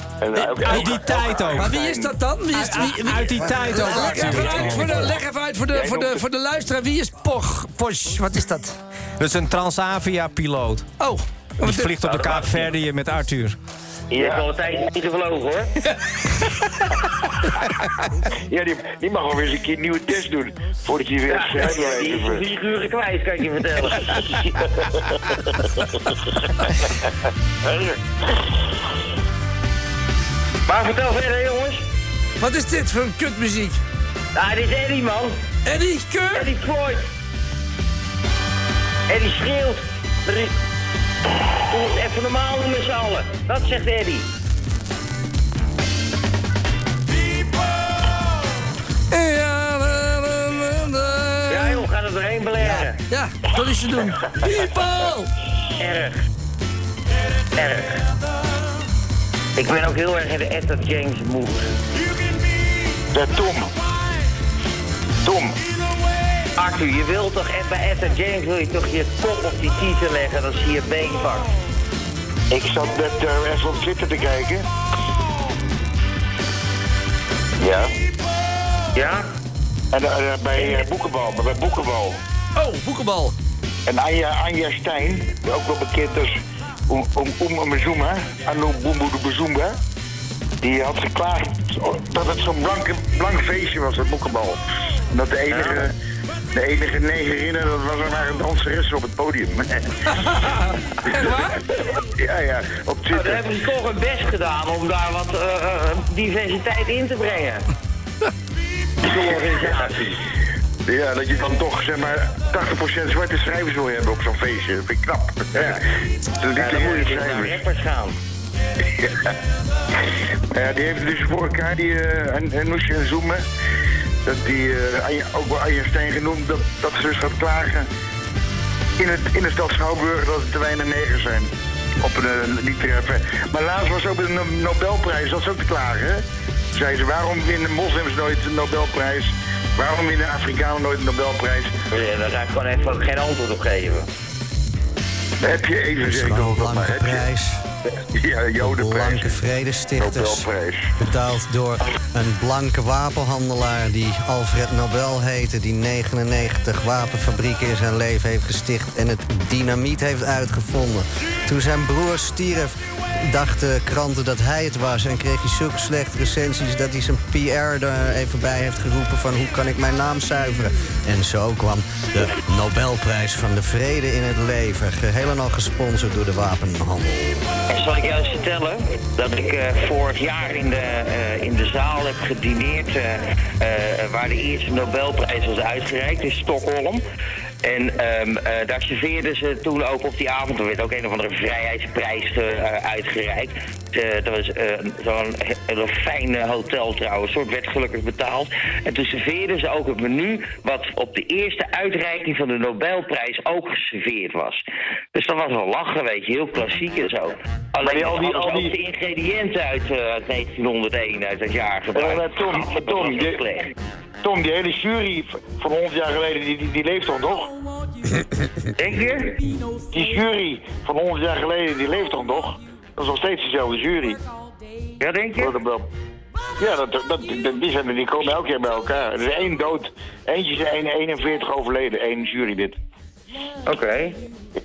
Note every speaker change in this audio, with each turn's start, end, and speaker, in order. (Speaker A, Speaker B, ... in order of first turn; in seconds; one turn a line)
Speaker A: 0.2-2.2
Speaker B: 0.3-0.8
Speaker C: 0.5-1.8
Speaker B: 1.5-8.8
Speaker C: 2.5-5.2
Speaker D: 3.4-5.1
Speaker A: 3.9-5.1
Speaker A: 5.7-6.2
Speaker C: 9.2-10.9
Speaker B: 11.0-12.0
Speaker C: 11.6-13.6
Speaker E: 12.0-12.7
Speaker E: 14.1-15.8
Speaker A: 14.1-14.5
Speaker A: 18.5-22.5
Speaker E: 21.3-24.4
Speaker A: 24.0-25.4
Speaker E: 30.7-31.9
Speaker B: 32.4-33.8
Speaker E: 34.4-35.4
Speaker B: 35.7-36.5
Speaker E: 36.3-37.1
Speaker E: 39.1-40.5
Speaker E: 41.7-44.3
Speaker B: 49.1-51.9
Speaker E: 51.5-53.0
Speaker D: 52.6-52.9
Speaker B: 53.1-55.3
Speaker E: 55.8-56.2
Speaker E: 57.5-58.0
Speaker E: 59.6-61.7
Speaker A: 63.1-63.7
Speaker A: 65.2-65.6
Speaker E: 66.5-71.5
Speaker A: 72.5-74.7
Speaker A: 77.6-78.0
Speaker E: 78.9-79.3
Speaker A: 79.9-82.2
Speaker B: 82.6-83.4
Speaker A: 83.9-86.4
Speaker A: 86.9-89.8
Speaker A: 90.6-95.9
Speaker E: 95.5-95.9
Speaker A: 96.5-100.3
Speaker B: 100.2-101.6
Speaker A: 101.1-103.5
Speaker E: 103.1-107.7
Speaker E: 109.0-110.2
Speaker A: 109.0-109.9
Speaker A: 110.8-117.6
Speaker E: 115.5-115.8
Speaker E: 116.5-118.2
Speaker A: 118.9-119.3
Speaker A: 120.5-123.4
Speaker A: 124.2-127.9
Speaker A: 129.0-141.7
Speaker E: 141.9-144.1
Speaker A: 145.4-147.2
Speaker D: 146.0-147.6
Speaker A: 147.9-149.3
Speaker D: 148.6-150.5
Speaker A: 150.0-150.9
Speaker D: 151.0-177.5
Speaker E: 177.7-187.0
Speaker E: 187.6-204.6
Speaker E: 205.1-213.7
Speaker A: 207.8-208.8
Speaker A: 211.9-213.4
Speaker A: 214.2-217.5
Speaker E: 218.8-219.4
Speaker A: 219.9-224.2
Speaker E: 225.0-225.6
Speaker A: 225.3-225.9
Speaker A: 226.6-232.8
Speaker E: 233.7-234.2